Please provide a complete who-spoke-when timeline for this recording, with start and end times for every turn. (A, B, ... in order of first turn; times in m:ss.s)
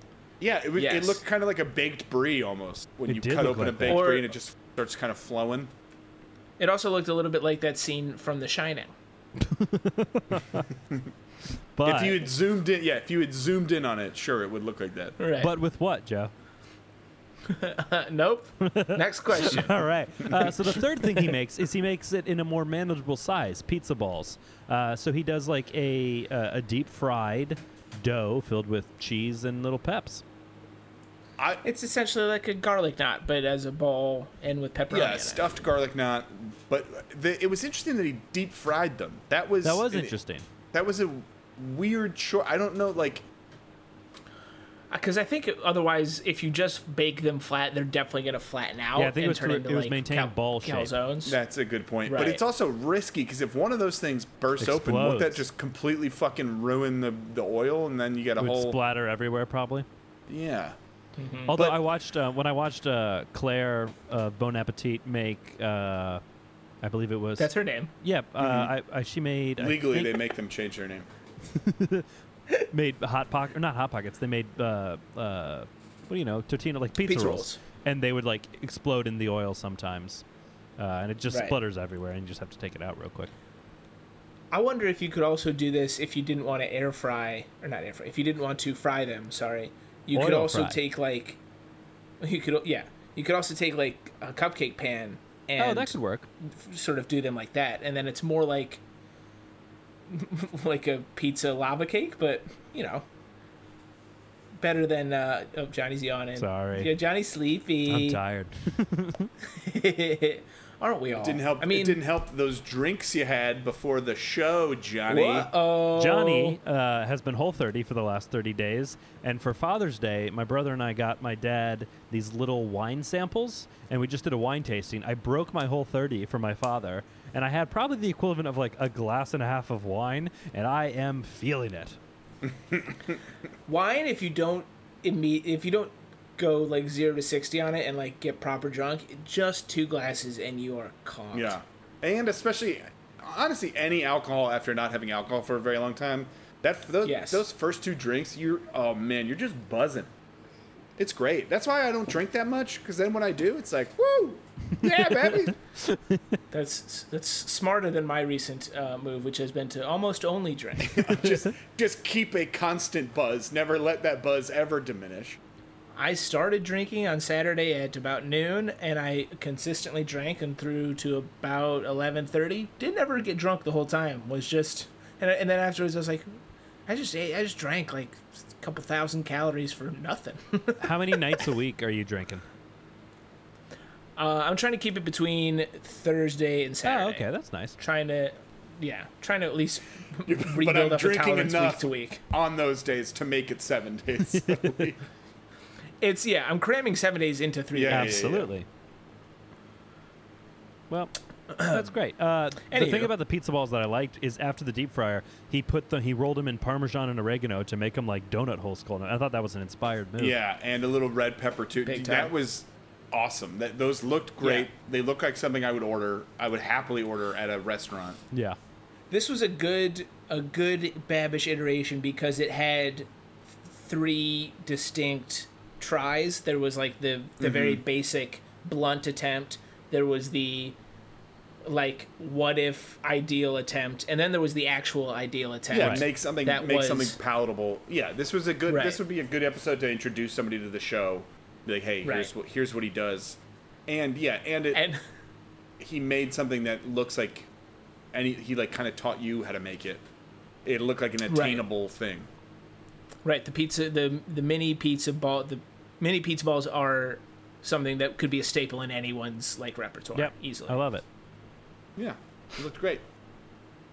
0:00.4-0:05.7 A
0:00.8-0:01.2 B
0:03.1-0:04.0 C
0:03.9-0:04.3 B
0:06.6-0:08.9 B
0:09.4-0:10.7 C
0:11.8-0:12.2 C
0:11.8-0:15.2 A
0:15.2-0:15.5 B
0:15.4-0:16.3 C
0:17.5-0:19.8 B
0:18.6-0:30.2 C
0:31.4-0:31.6 A
0:31.6-0:35.5 B
0:34.9-0:40.2 A
0:39.6-0:40.5 C
0:40.7-0:43.2 A
0:44.9-0:51.4 B
0:49.0-0:50.9 C
0:51.2-0:58.8 A
0:52.0-0:52.4 B
0:54.6-0:55.4 C
0:58.4-0:59.9 C
1:00.3-1:00.8 A
1:01.2-1:01.5 B
1:01.5-1:06.2 C
1:06.8-1:07.5 C
1:07.4-1:07.9 B
1:08.0-1:10.2 C
1:08.4-1:08.7 A
1:09.6-1:11.1 A
1:11.5-1:12.1 C
1:12.7-1:20.2 C
1:17.0-1:17.6 B
1:20.8-1:23.3 C
1:21.3-1:21.6 B
1:24.5-1:31.4 B
1:30.1-1:30.8 C
1:32.2-1:38.8 B
1:35.6-1:36.3 C
1:40.1-1:43.0 B
1:44.6-1:48.2 B
1:46.4-1:46.9 C
1:47.9-1:49.3 C
1:49.4-1:52.0 B
1:51.2-1:55.5 A
1:55.1-1:56.6 B
1:55.9-2:12.0 C
2:13.7-2:21.6 B
2:21.3-2:30.1 A
2:27.0-2:27.4 B
2:31.0-2:35.6 A
2:35.0-2:36.4 C
2:36.5-2:41.4 B
2:40.9-2:45.4 A
2:46.0-2:56.3 B
2:56.9-3:01.4 B
3:00.8-3:02.4 C
3:04.2-3:12.2 B
3:06.8-3:07.8 C
3:10.3-3:15.0 A
3:14.4-3:14.8 C
3:16.0-3:18.3 B
3:17.7-3:18.5 A
3:17.9-3:18.6 C
3:20.9-3:30.4 C
3:21.6-3:21.9 B
3:22.7-3:23.1 B
3:30.2-3:38.2 A
3:31.8-3:32.3 B
3:34.4-3:34.7 B
3:38.3-3:38.6 C
3:39.1-3:43.1 B
3:43.7-3:50.8 B
3:47.4-3:47.8 A
3:51.6-3:57.2 B
3:55.7-4:04.8 A
3:58.7-3:59.0 B
4:02.0-4:02.3 B
4:04.7-4:05.0 B
4:05.8-4:07.5 A
4:08.1-4:10.0 A
4:10.6-4:12.3 A
4:11.3-4:11.6 B
4:13.2-4:20.8 B
4:20.2-4:21.0 C
4:22.0-4:23.0 A